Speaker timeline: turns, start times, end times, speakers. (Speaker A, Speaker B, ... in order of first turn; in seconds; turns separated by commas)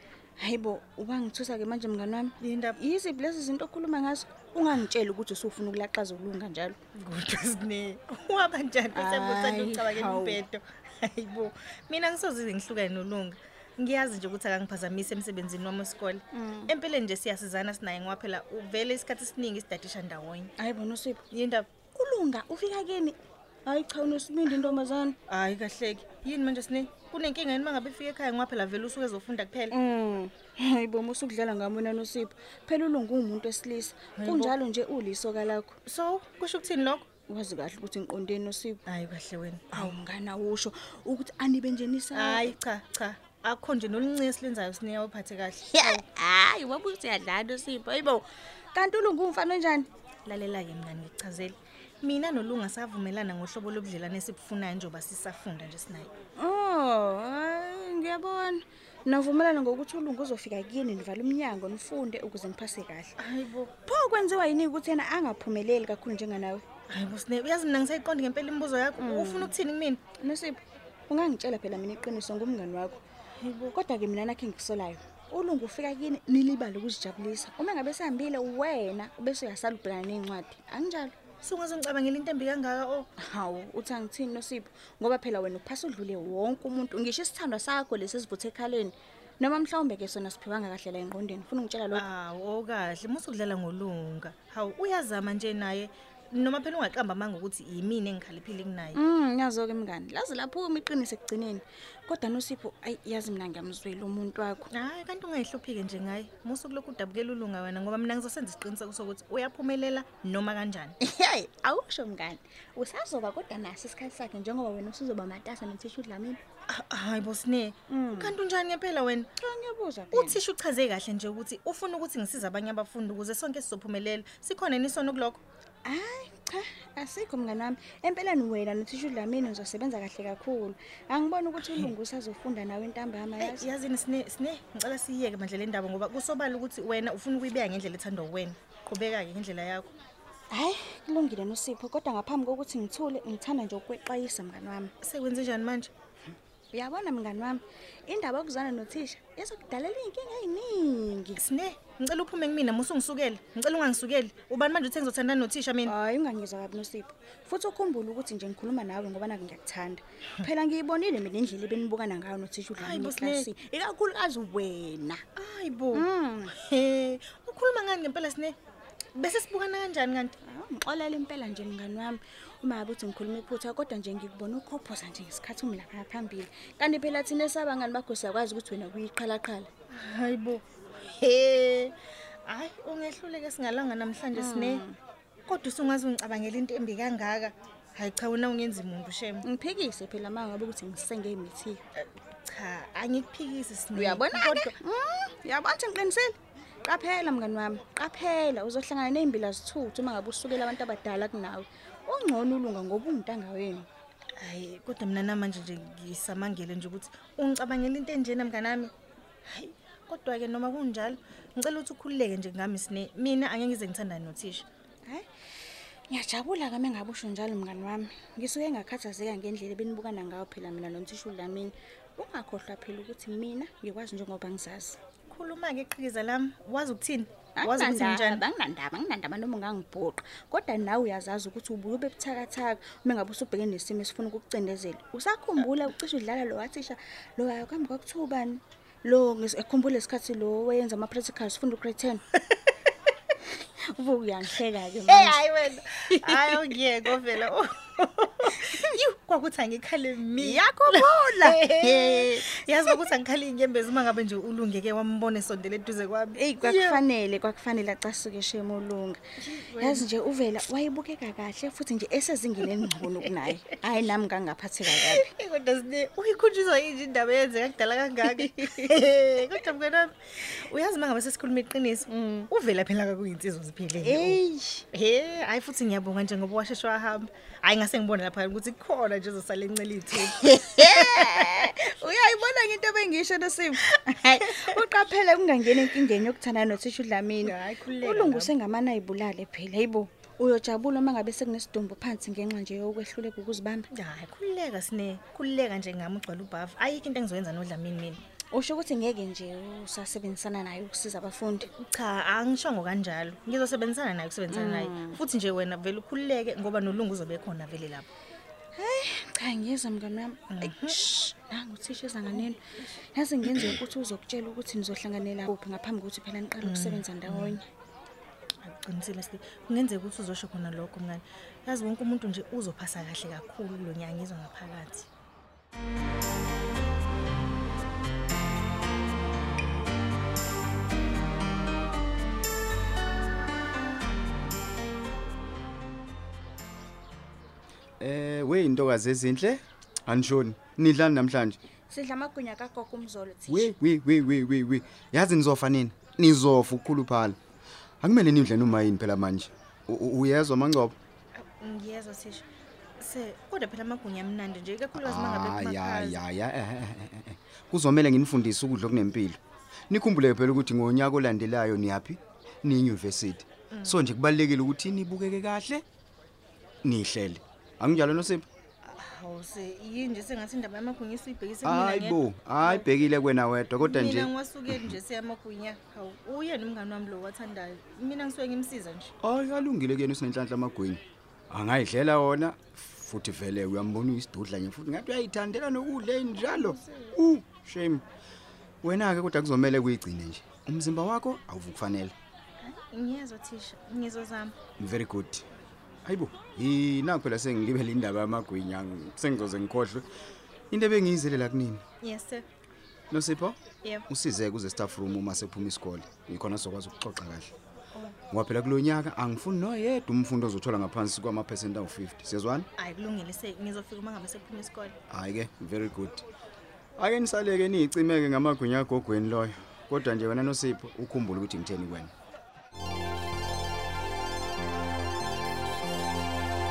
Speaker A: 0.4-6.8, Speaker B: 2.4-2.8, Speaker B: 7.0-20.5, Speaker A: 8.9-10.4, Speaker A: 16.3-16.7, Speaker A: 20.6-21.2, Speaker B: 21.3-21.7, Speaker A: 21.9-25.2, Speaker B: 25.3-29.7, Speaker A: 29.7-35.8, Speaker B: 34.2-34.5, Speaker B: 35.9-37.0, Speaker A: 37.3-38.8, Speaker B: 38.9-40.0, Speaker A: 39.7-42.5, Speaker B: 42.1-46.0, Speaker A: 45.7-49.9, Speaker B: 50.2-56.1, Speaker A: 56.4-63.1, Speaker B: 63.2-63.7, Speaker A: 63.9-66.6, Speaker B: 66.9-70.0, Speaker A: 69.0-69.5, Speaker A: 70.2-73.0, Speaker B: 73.4-73.7, Speaker A: 73.7-81.1, Speaker B: 81.4-83.1, Speaker A: 83.2-92.0, Speaker B: 91.9-99.0, Speaker A: 98.9-104.7, Speaker B: 104.7-110.9, Speaker A: 111.0-116.4, Speaker B: 116.7-119.3, Speaker A: 117.9-118.3, Speaker A: 119.4-120.4, Speaker B: 120.1-125.4, Speaker A: 125.8-133.7, Speaker B: 131.6-131.9, Speaker B: 133.4-139.9, Speaker A: 140.5-144.9, Speaker B: 145.0-145.9, Speaker A: 146.7-151.4, Speaker B: 151.4-155.9, Speaker A: 155.8-165.2, Speaker B: 162.8-163.5, Speaker B: 165.3-168.5, Speaker A: 165.9-166.5, Speaker B: 169.2-170.3, Speaker A: 170.4-179.7, Speaker B: 179.9-181.9, Speaker B: 182.5-184.8, Speaker A: 184.3-184.9, Speaker B: 185.5-189.4, Speaker A: 189.4-191.8, Speaker B: 191.9-194.8, Speaker A: 193.9-203.9, Speaker B: 204.4-208.9, Speaker B: 209.5-214.7, Speaker A: 216.1-225.0, Speaker B: 225.3-228.4, Speaker A: 227.6-242.2, Speaker A: 243.9-245.4, Speaker B: 245.1-257.0, Speaker A: 246.2-246.7, Speaker A: 250.4-252.5, Speaker A: 256.4-259.2, Speaker B: 259.4-260.1, Speaker A: 259.8-265.3, Speaker B: 264.9-274.4, Speaker A: 268.5-268.9, Speaker A: 272.1-272.5, Speaker A: 274.0-274.8, Speaker B: 274.9-281.7, Speaker A: 280.2-293.9, Speaker B: 287.4-288.5, Speaker B: 293.9-298.2, Speaker A: 298.5-301.7, Speaker B: 301.7-308.1, Speaker A: 304.5-305.2, Speaker A: 308.8-317.6, Speaker B: 310.5-311.0, Speaker B: 316.6-317.6, Speaker B: 318.6-325.1, Speaker C: 338.0-341.6, Speaker A: 341.9-343.7, Speaker C: 343.5-347.4, Speaker C: 348.0-350.9, Speaker B: 351.4-352.5, Speaker B: 353.0-356.2, Speaker C: 354.9-359.4, Speaker C: 359.9-365.8, Speaker B: 363.7-364.0, Speaker C: 366.8-368.4, Speaker B: 368.8-372.9, Speaker C: 371.6-375.0, Speaker B: 373.8-379.1, Speaker C: 379.2-388.0, Speaker B: 386.4-387.2, Speaker C: 388.8-392.1, Speaker B: 392.6-394.5, Speaker C: 394.8-395.4, Speaker C: 396.0-400.1, Speaker C: 400.7-401.8, Speaker B: 402.0-402.4, Speaker C: 403.1-403.6, Speaker C: 404.1-407.5, Speaker C: 408.3-412.7, Speaker B: 412.8-414.9, Speaker C: 415.1-416.2, Speaker C: 417.0-422.1